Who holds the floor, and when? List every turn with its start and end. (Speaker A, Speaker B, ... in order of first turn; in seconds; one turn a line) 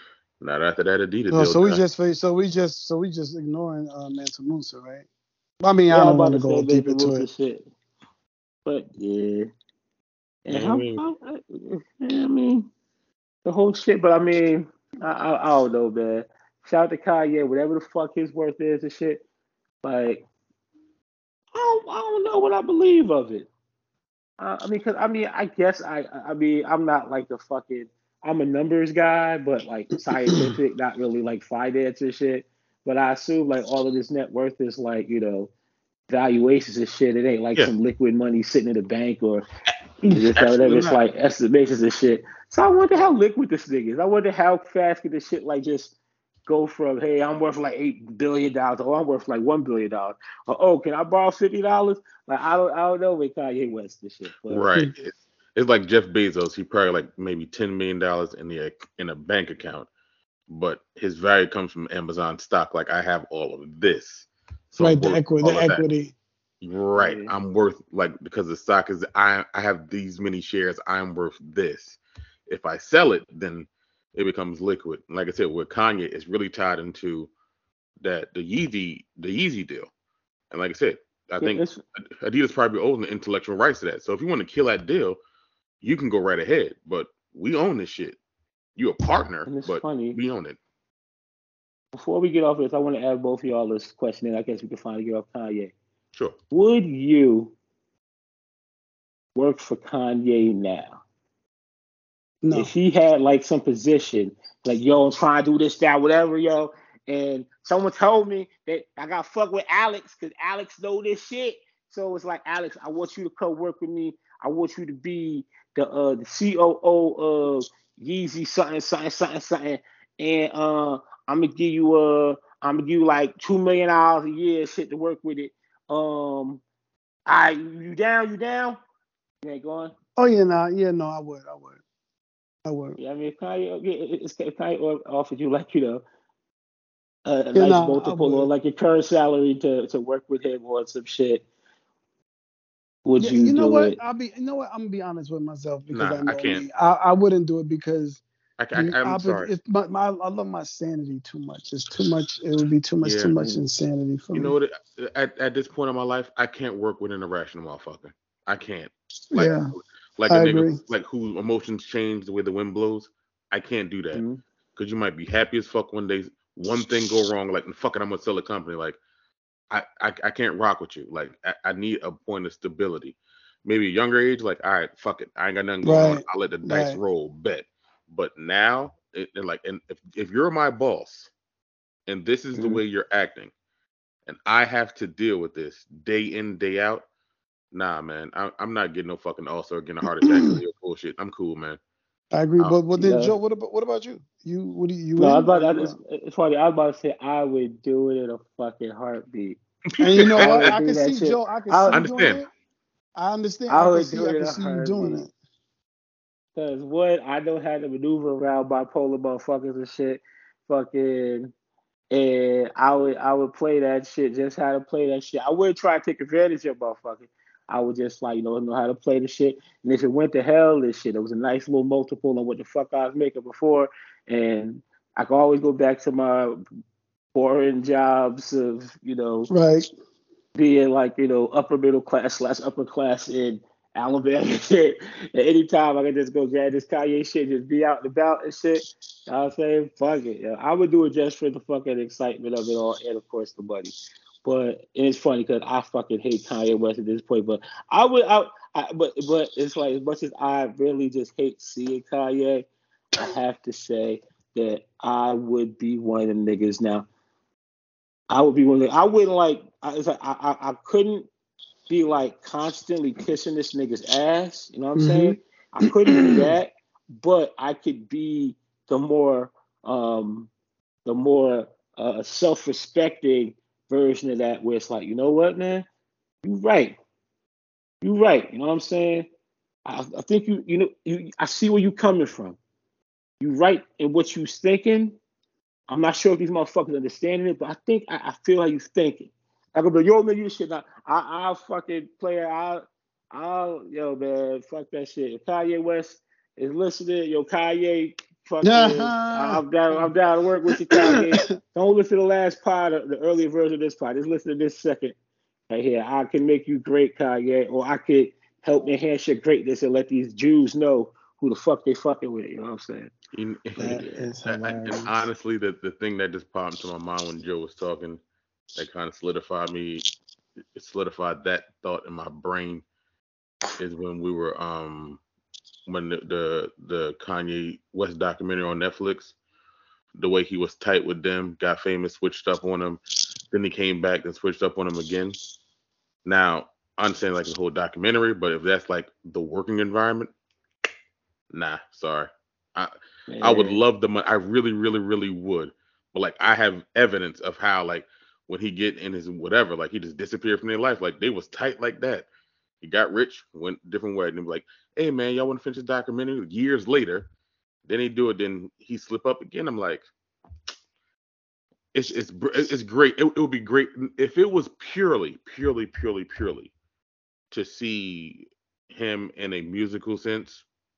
Speaker A: 0.4-1.8
Speaker B: 1.3-5.0
Speaker B: 5.6-7.3
Speaker C: 5.9-7.7
Speaker C: 8.7-9.5
Speaker C: 10.4-12.7
Speaker A: 10.5-11.0
Speaker C: 13.4-19.2
Speaker C: 19.8-20.2
Speaker C: 21.5-23.5
Speaker C: 24.4-35.5
Speaker C: 36.1-39.4
Speaker A: 40.1-41.0
Speaker C: 40.1-45.9
Speaker C: 46.5-54.6
Speaker A: 54.5-59.9
Speaker A: 60.5-65.8
Speaker B: 64.8-66.1
Speaker A: 66.6-77.3
Speaker C: 66.9-67.3
Speaker A: 78.0-79.9
Speaker A: 80.5-81.6
Speaker C: 81.4-81.8
Speaker A: 82.2-85.2
Speaker A: 85.8-88.2
Speaker A: 88.8-90.6
Speaker C: 89.5-90.2
Speaker C: 91.9-95.7
Speaker C: 96.5-97.5
Speaker C: 99.3-101.0
Speaker B: 102.4-102.7
Speaker C: 102.5-126.6
Speaker C: 127.3-128.8
Speaker C: 129.4-129.9
Speaker B: 130.2-131.8
Speaker B: 132.7-133.0
Speaker C: 133.0-136.0
Speaker C: 137.2-141.4
Speaker B: 137.5-138.5
Speaker C: 143.0-143.9
Speaker B: 143.2-148.2
Speaker A: 145.9-146.7
Speaker A: 148.6-149.5
Speaker B: 148.7-154.6
Speaker A: 153.0-153.3
Speaker A: 154.3-159.6
Speaker B: 159.3-159.7
Speaker A: 160.2-164.2
Speaker B: 160.3-160.8
Speaker C: 164.1-164.4
Speaker A: 164.8-169.0
Speaker A: 169.7-181.3
Speaker B: 175.8-177.0
Speaker A: 182.1-183.5
Speaker B: 182.5-182.8
Speaker A: 184.2-187.0
Speaker A: 187.7-191.8
Speaker B: 190.2-190.6
Speaker B: 192.3-195.9
Speaker C: 193.0-193.3
Speaker C: 195.2-199.6
Speaker A: 200.0-200.6
Speaker B: 200.0-202.5
Speaker C: 200.2-202.1
Speaker A: 201.9-202.4
Speaker B: 203.2-205.3
Speaker C: 203.7-205.2
Speaker C: 206.6-211.5
Speaker C: 212.1-226.6
Speaker C: 227.3-229.5
Speaker B: 229.5-229.9
Speaker C: 230.5-252.7
Speaker C: 253.2-257.1
Speaker C: 258.3-261.3
Speaker C: 261.9-270.5
Speaker B: 265.0-266.5
Speaker C: 271.1-275.9
Speaker C: 276.4-276.9
Speaker C: 278.0-279.3
Speaker C: 279.9-282.6
Speaker C: 283.4-285.2
Speaker C: 285.9-305.1
Speaker B: 298.6-299.6
Speaker B: 300.9-301.4
Speaker C: 305.7-313.1
Speaker A: 313.3-318.2
Speaker B: 313.8-315.3
Speaker A: 318.8-320.0
Speaker A: 320.7-322.8
Speaker A: 323.8-325.2
Speaker A: 325.9-329.3
Speaker A: 330.1-333.0
Speaker A: 333.5-335.4
Speaker A: 336.2-340.3
Speaker A: 341.5-342.9
Speaker C: 343.3-343.8
Speaker A: 343.4-352.2
Speaker A: 352.8-357.3
Speaker A: 357.9-360.1
Speaker A: 361.9-366.7
Speaker A: 367.5-370.6